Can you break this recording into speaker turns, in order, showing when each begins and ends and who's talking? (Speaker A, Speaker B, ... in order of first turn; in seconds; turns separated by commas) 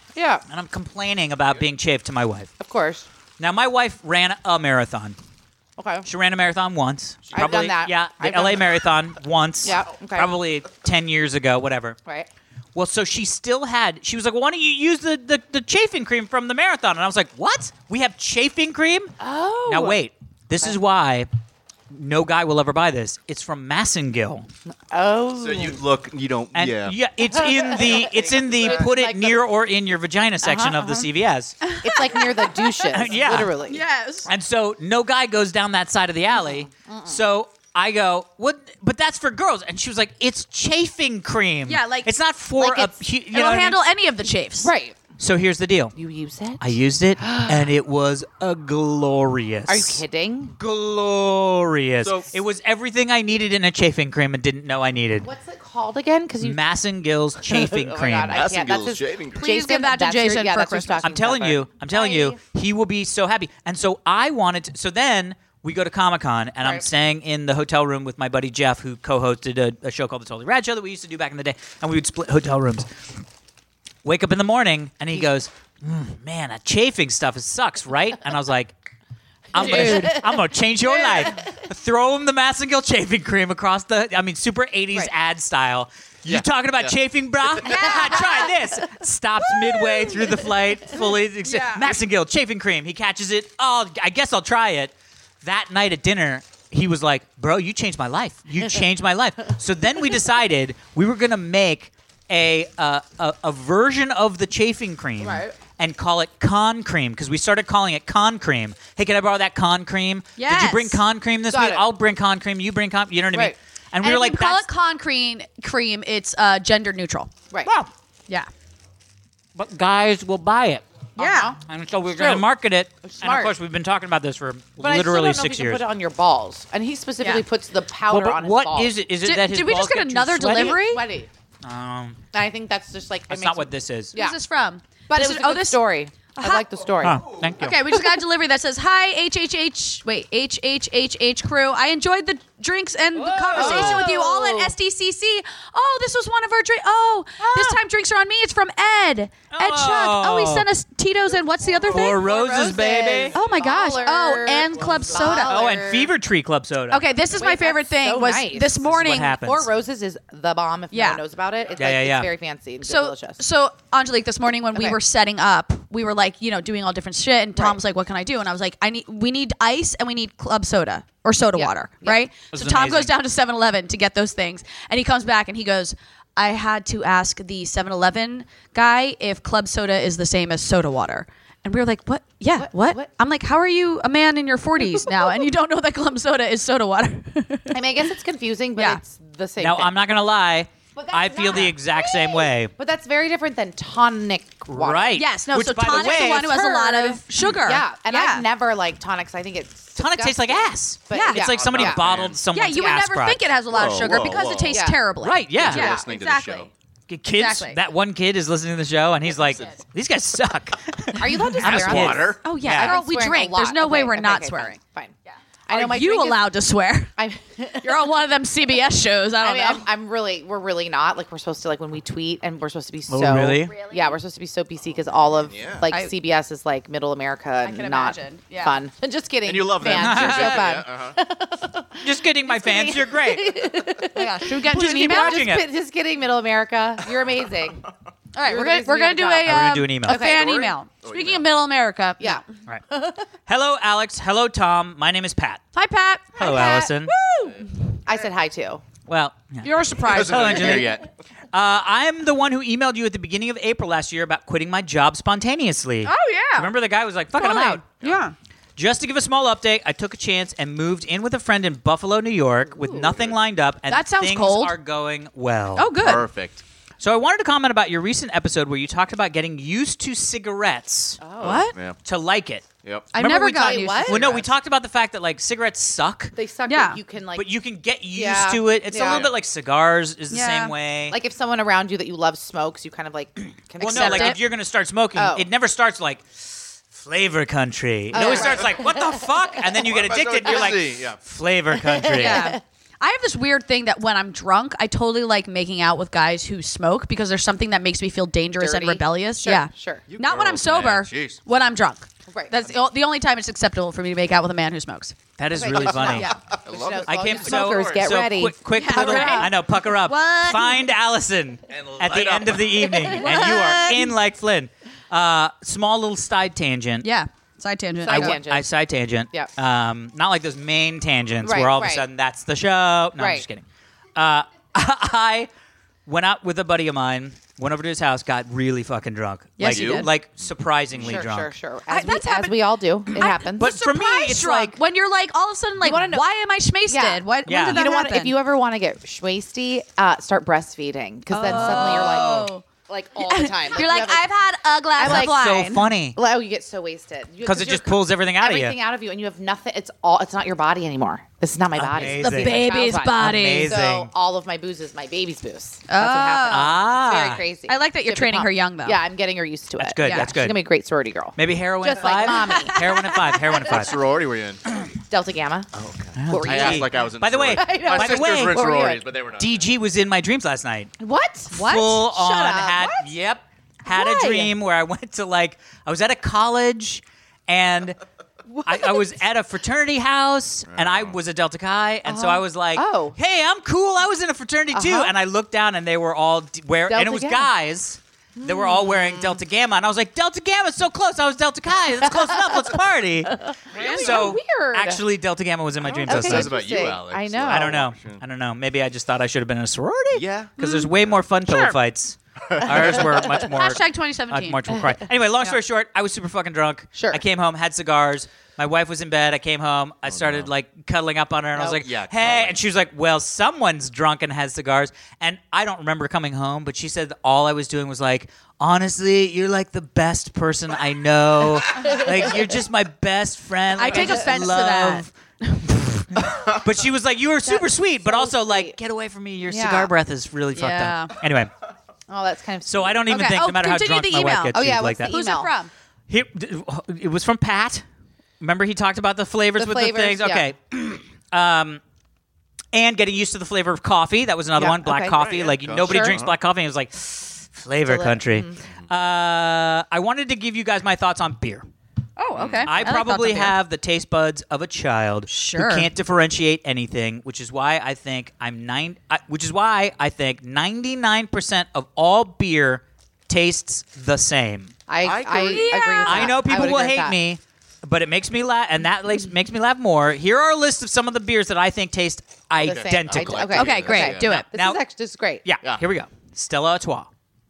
Speaker A: 0.1-0.4, Speaker B: 0.5-2.5, Speaker A: 2.6-3.1, Speaker B: 3.4-5.2, Speaker A: 5.8-6.1, Speaker B: 6.0-12.0, Speaker C: 7.3-7.6, Speaker A: 7.3-8.7, Speaker A: 9.6-10.3, Speaker B: 12.8-19.1, Speaker A: 19.2-20.0, Speaker B: 19.7-21.3, Speaker B: 21.9-24.5, Speaker A: 24.9-25.8, Speaker C: 25.4-27.0, Speaker B: 26.6-31.6, Speaker A: 27.3-29.4, Speaker A: 30.4-31.1, Speaker D: 31.6-34.3, Speaker A: 31.8-33.8, Speaker B: 32.9-33.5, Speaker B: 34.3-43.8, Speaker A: 36.5-37.2, Speaker D: 41.7-42.1, Speaker A: 42.6-42.9, Speaker D: 43.3-44.7, Speaker A: 44.6-45.0, Speaker B: 45.2-46.0, Speaker A: 46.0-47.6, Speaker B: 46.6-50.0, Speaker A: 49.7-50.5, Speaker B: 50.6-55.3, Speaker C: 52.0-52.4, Speaker A: 55.2-56.6, Speaker B: 56.4-58.5, Speaker A: 57.4-62.4, Speaker C: 58.3-59.5, Speaker D: 59.4-61.1, Speaker B: 61.0-72.9, Speaker B: 74.0-78.7, Speaker B: 79.5-114.7, Speaker A: 79.5-80.4, Speaker A: 81.0-81.5, Speaker C: 86.2-87.9, Speaker D: 87.7-88.5, Speaker A: 87.7-88.2, Speaker A: 89.8-90.4, Speaker D: 91.4-91.9, Speaker A: 105.2-105.6, Speaker D: 110.4-111.0, Speaker A: 111.5-111.8, Speaker D: 114.0-117.3, Speaker B: 117.6-117.9, Speaker B: 119.5-120.8, Speaker D: 121.2-121.5, Speaker A: 121.2-121.6, Speaker B: 121.6-125.8, Speaker A: 123.0-123.5, Speaker A: 124.8-128.9, Speaker B: 128.1-130.8, Speaker D: 129.2-131.0, Speaker A: 130.5-131.3, Speaker B: 131.6-132.2, Speaker A: 132.3-134.4, Speaker B: 133.3-134.2, Speaker D: 134.1-135.8, Speaker A: 135.1-137.2, Speaker D: 136.3-136.7, Speaker B: 137.0-137.9, Speaker C: 137.2-137.5, Speaker D: 137.6-152.7, Speaker B: 143.2-144.2, Speaker A: 143.5-144.7, Speaker B: 147.4-147.8, Speaker B: 149.5-150.7, Speaker B: 151.9-153.3, Speaker A: 152.2-156.1, Speaker D: 153.3-155.7, Speaker B: 155.2-157.0, Speaker D: 156.9-159.3, Speaker A: 157.4-163.4, Speaker B: 158.8-159.7, Speaker D: 160.9-161.2, Speaker B: 161.8-162.3, Speaker D: 162.8-187.8, Speaker A: 171.5-172.2, Speaker B: 172.5-173.1, Speaker A: 182.5-183.1, Speaker A: 184.8-185.5, Speaker A: 187.7-189.9, Speaker D: 188.8-189.0, Speaker B: 189.6-192.7, Speaker A: 190.9-202.0, Speaker B: 194.7-196.6, Speaker D: 195.1-198.5, Speaker B: 200.0-203.5, Speaker D: 201.1-201.5, Speaker C: 201.5-202.4, Speaker D: 202.5-206.7, Speaker C: 203.7-204.8, Speaker A: 204.7-205.0, Speaker B: 205.2-205.9, Speaker C: 205.6-206.7, Speaker A: 205.7-206.0, Speaker B: 207.1-213.0, Speaker D: 207.3-207.8, Speaker A: 211.2-215.2, Speaker C: 211.6-212.4, Speaker D: 212.4-217.1, Speaker A: 215.7-216.4, Speaker A: 217.2-218.0, Speaker D: 217.8-219.9, Speaker A: 219.4-237.8, Speaker B: 223.1-223.7, Speaker D: 223.6-224.2, Speaker C: 225.4-225.8, Speaker D: 227.6-228.8, Speaker C: 229.4-231.2, Speaker B: 229.9-230.7, Speaker B: 232.0-233.6, Speaker D: 234.1-235.5, Speaker B: 234.7-235.7, Speaker D: 238.3-242.4, Speaker A: 238.4-240.8, Speaker B: 239.5-240.2, Speaker C: 241.0-241.4, Speaker A: 242.2-243.2, Speaker B: 243.5-245.6, Speaker D: 245.7-247.7, Speaker B: 246.4-247.1, Speaker A: 246.5-246.8, Speaker A: 248.1-248.8, Speaker B: 249.1-257.8, Speaker D: 249.6-250.9, Speaker C: 250.0-251.1, Speaker D: 256.0-256.7, Speaker D: 257.4-258.3, Speaker B: 258.8-266.0, Speaker C: 263.0-263.3, Speaker D: 263.9-264.8, Speaker D: 265.8-266.2, Speaker C: 266.0-266.6, Speaker B: 267.0-271.2, Speaker A: 271.2-271.6, Speaker C: 271.4-272.0, Speaker D: 271.4-271.8, Speaker B: 272.1-276.4, Speaker C: 272.8-273.1, Speaker D: 273.1-274.2, Speaker A: 273.2-274.5, Speaker A: 276.4-277.5, Speaker D: 276.7-277.0, Speaker B: 277.4-281.2, Speaker A: 278.1-279.3, Speaker C: 278.9-279.3, Speaker D: 280.3-280.7, Speaker A: 281.1-284.4, Speaker B: 283.8-292.6, Speaker D: 283.8-284.4, Speaker A: 285.1-285.5, Speaker A: 288.1-289.0, Speaker C: 288.2-288.7, Speaker C: 289.8-291.2, Speaker A: 292.1-292.6, Speaker D: 292.1-305.2, Speaker A: 298.6-300.1, Speaker C: 300.1-301.4, Speaker A: 302.3-302.7, Speaker B: 305.4-306.4, Speaker A: 305.5-309.5, Speaker C: 305.9-308.2, Speaker B: 307.1-317.1, Speaker D: 308.7-310.8, Speaker C: 311.7-313.2, Speaker D: 312.9-314.1, Speaker D: 317.0-318.4, Speaker A: 318.0-318.7, Speaker B: 318.1-325.5, Speaker A: 321.4-322.1, Speaker A: 323.2-323.4, Speaker B: 326.1-331.5, Speaker D: 329.6-330.1, Speaker C: 329.7-331.3, Speaker A: 331.0-333.7, Speaker D: 331.9-338.4, Speaker B: 333.2-334.8, Speaker A: 335.8-336.3, Speaker A: 336.9-344.3, Speaker B: 337.5-337.9, Speaker D: 341.3-342.6, Speaker B: 341.4-342.5, Speaker D: 343.2-345.9, Speaker A: 345.0-345.6, Speaker B: 345.0-346.2, Speaker A: 346.1-363.0, Speaker B: 347.4-348.8, Speaker B: 351.7-354.1, Speaker D: 352.1-353.8, Speaker D: 355.9-356.8, Speaker B: 356.5-357.4, Speaker D: 357.7-359.0, Speaker B: 359.8-360.6, Speaker B: 361.4-364.0, Speaker D: 362.4-363.2, Speaker C: 363.5-364.6, Speaker A: 365.0-365.7, Speaker C: 365.8-369.7, Speaker B: 366.1-368.6, Speaker A: 366.3-369.0, Speaker B: 369.4-370.9, Speaker A: 371.0-373.1, Speaker D: 371.5-372.0, Speaker B: 371.5-378.0, Speaker A: 373.9-374.5, Speaker B: 378.6-396.5, Speaker C: 380.7-381.2, Speaker A: 382.1-383.2, Speaker A: 384.7-385.1, Speaker A: 386.9-387.5, Speaker A: 388.4-389.4, Speaker A: 393.5-395.0, Speaker C: 393.7-394.1, Speaker D: 393.8-394.3, Speaker A: 395.9-397.8, Speaker C: 396.0-398.2, Speaker B: 397.5-431.5, Speaker C: 400.1-401.7, Speaker D: 400.6-400.9, Speaker C: 402.5-403.4, Speaker D: 403.2-404.8, Speaker A: 406.9-407.2, Speaker C: 410.1-410.5, Speaker C: 411.8-412.6, Speaker D: 423.8-425.1, Speaker A: 427.4-428.8, Speaker A: 429.5-429.9, Speaker D: 430.6-431.1, Speaker A: 432.1-433.1, Speaker B: 432.6-435.1, Speaker D: 433.1-435.7, Speaker A: 434.5-435.5, Speaker B: 436.1-437.8, Speaker B: 438.4-441.8, Speaker A: 439.6-440.5, Speaker B: 442.7-451.7, Speaker A: 444.6-445.2, Speaker C: 445.1-446.3, Speaker A: 445.8-446.2, Speaker A: 447.9-448.6, Speaker D: 452.2-453.6, Speaker C: 452.4-452.7, Speaker B: 452.6-464.7, Speaker D: 455.3-455.9, Speaker A: 464.9-467.2, Speaker C: 465.0-465.8, Speaker D: 465.5-466.5, Speaker B: 466.0-473.6, Speaker A: 472.6-475.4, Speaker C: 472.6-474.4, Speaker D: 473.5-474.5, Speaker B: 474.3-474.8, Speaker B: 475.4-477.1